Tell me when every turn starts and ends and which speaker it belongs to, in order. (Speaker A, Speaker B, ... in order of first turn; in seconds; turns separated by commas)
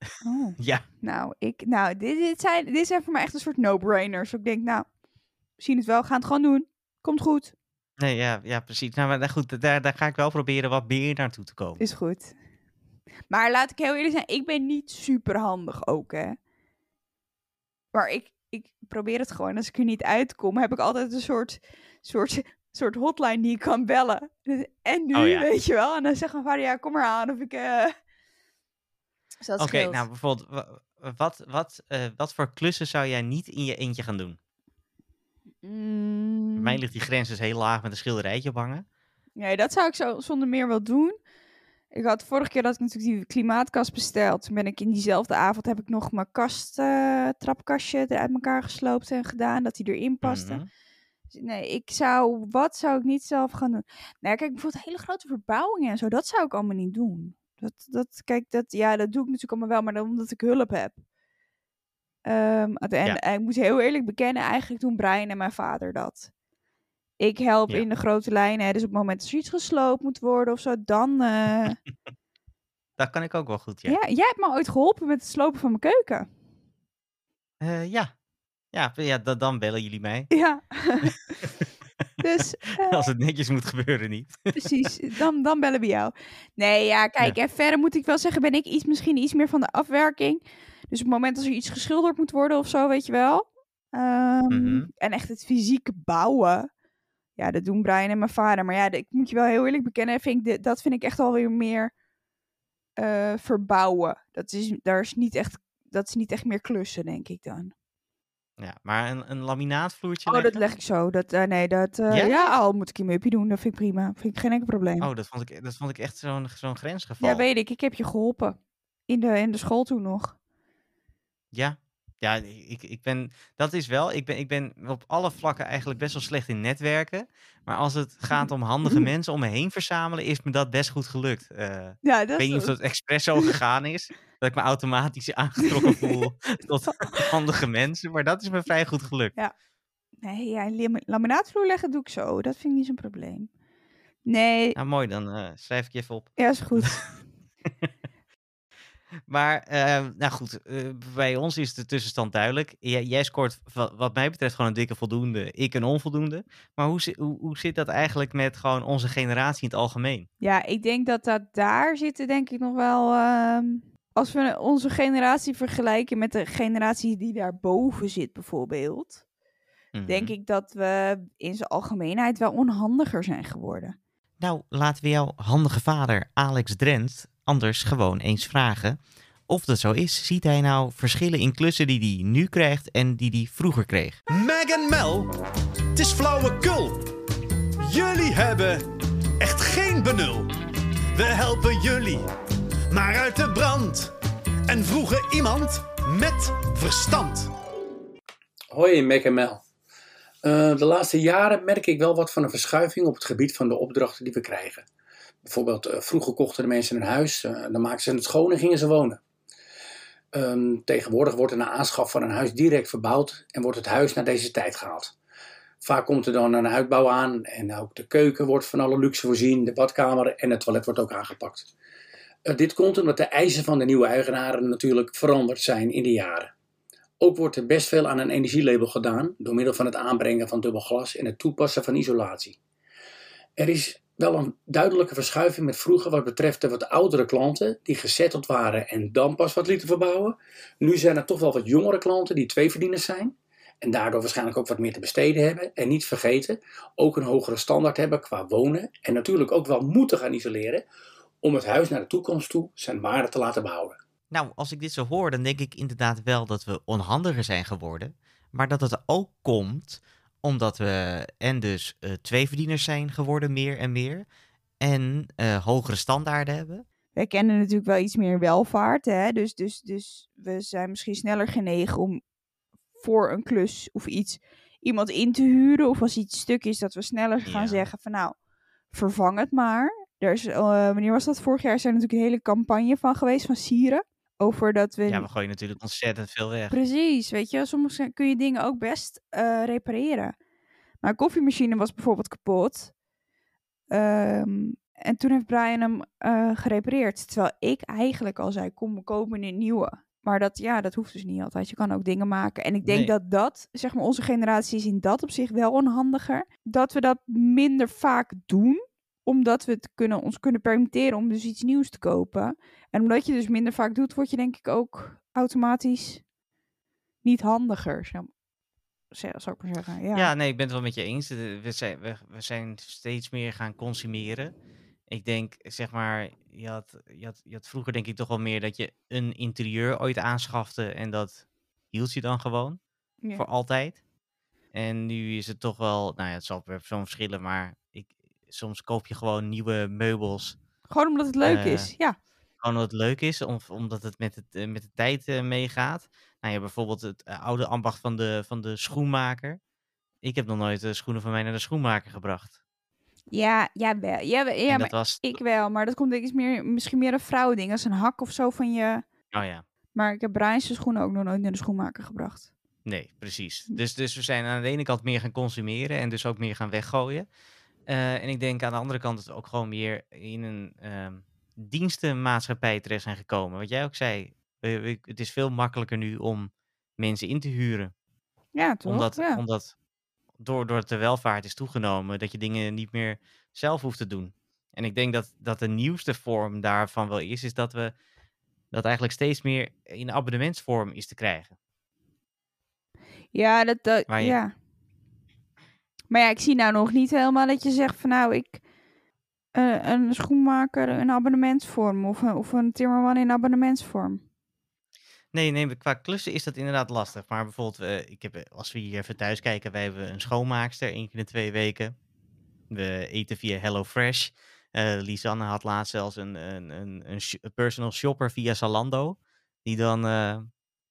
Speaker A: 0.2-4.9, Speaker B: 0.6-0.8, Speaker A: 5.6-7.5, Speaker B: 8.0-11.8, Speaker A: 11.8-12.3, Speaker A: 13.3-16.4, Speaker A: 17.9-27.9, Speaker B: 25.1-25.5, Speaker A: 29.4-30.1, Speaker B: 29.6-34.4, Speaker A: 35.6-36.8, Speaker B: 36.6-38.9, Speaker A: 39.4-41.2, Speaker A: 41.9-50.6, Speaker B: 50.2-50.7, Speaker A: 51.3-61.0, Speaker A: 62.2-66.3, Speaker A: 67.2-71.8, Speaker B: 73.0-74.0, Speaker A: 73.9-76.3, Speaker B: 77.6-78.1, Speaker B: 78.7-80.3, Speaker A: 80.3-81.3, Speaker A: 82.2-83.1, Speaker B: 82.8-84.7, Speaker A: 84.6-96.7, Speaker B: 94.5-94.9, Speaker A: 97.4-101.9, Speaker A: 103.0-107.7, Speaker B: 108.6-110.6, Speaker A: 110.3-115.1, Speaker B: 112.1-112.5, Speaker B: 115.0-117.5, Speaker A: 117.2-118.6, Speaker A: 119.1-120.3, Speaker B: 121.5-139.3, Speaker A: 128.3-129.1, Speaker A: 132.0-132.7, Speaker A: 135.7-136.1, Speaker A: 136.9-137.3, Speaker A: 140.2-143.5, Speaker A: 144.3-144.8, Speaker B: 144.8-147.0, Speaker A: 146.4-147.1, Speaker B: 149.3-160.3, Speaker A: 160.4-169.2, Speaker B: 169.9-170.3, Speaker A: 170.1-173.9, Speaker B: 174.4-184.2, Speaker C: 184.3-185.3, Speaker C: 185.9-187.1, Speaker C: 187.8-188.8, Speaker C: 189.4-190.5, Speaker C: 191.1-192.3, Speaker C: 192.9-194.1, Speaker C: 194.7-197.5, Speaker D: 198.7-199.6, Speaker D: 200.4-204.8, Speaker D: 205.4-209.2, Speaker D: 210.3-215.1, Speaker D: 215.8-221.7, Speaker D: 222.5-226.5, Speaker D: 227.2-232.6, Speaker D: 233.6-250.8, Speaker D: 251.4-254.0, Speaker B: 254.3-264.3, Speaker B: 264.8-266.9, Speaker A: 267.2-272.2, Speaker A: 273.0-278.4, Speaker B: 277.4-277.8, Speaker A: 278.9-285.3, Speaker B: 285.1-286.8, Speaker A: 286.7-290.4, Speaker A: 291.0-292.9, Speaker A: 293.9-316.2, Speaker B: 302.9-303.1, Speaker A: 317.2-318.3, Speaker A: 319.1-320.3, Speaker B: 320.1-324.5, Speaker B: 325.1-332.8, Speaker B: 333.4-334.0, Speaker B: 334.7-340.6, Speaker A: 340.9-342.2, Speaker B: 341.4-341.9, Speaker B: 342.6-349.6, Speaker B: 350.2-352.5, Speaker A: 353.3-359.1, Speaker B: 354.7-355.4, Speaker B: 359.3-359.6, Speaker A: 359.9-362.5, Speaker B: 362.9-367.3, Speaker B: 367.9-377.9, Speaker A: 378.6-379.4, Speaker B: 378.9-379.7, Speaker B: 380.4-387.9, Speaker B: 388.7-391.6, Speaker A: 393.3-394.5, Speaker B: 394.1-394.4, Speaker A: 396.1-398.6, Speaker A: 399.5-404.2, Speaker B: 405.3-411.9, Speaker B: 412.7-420.5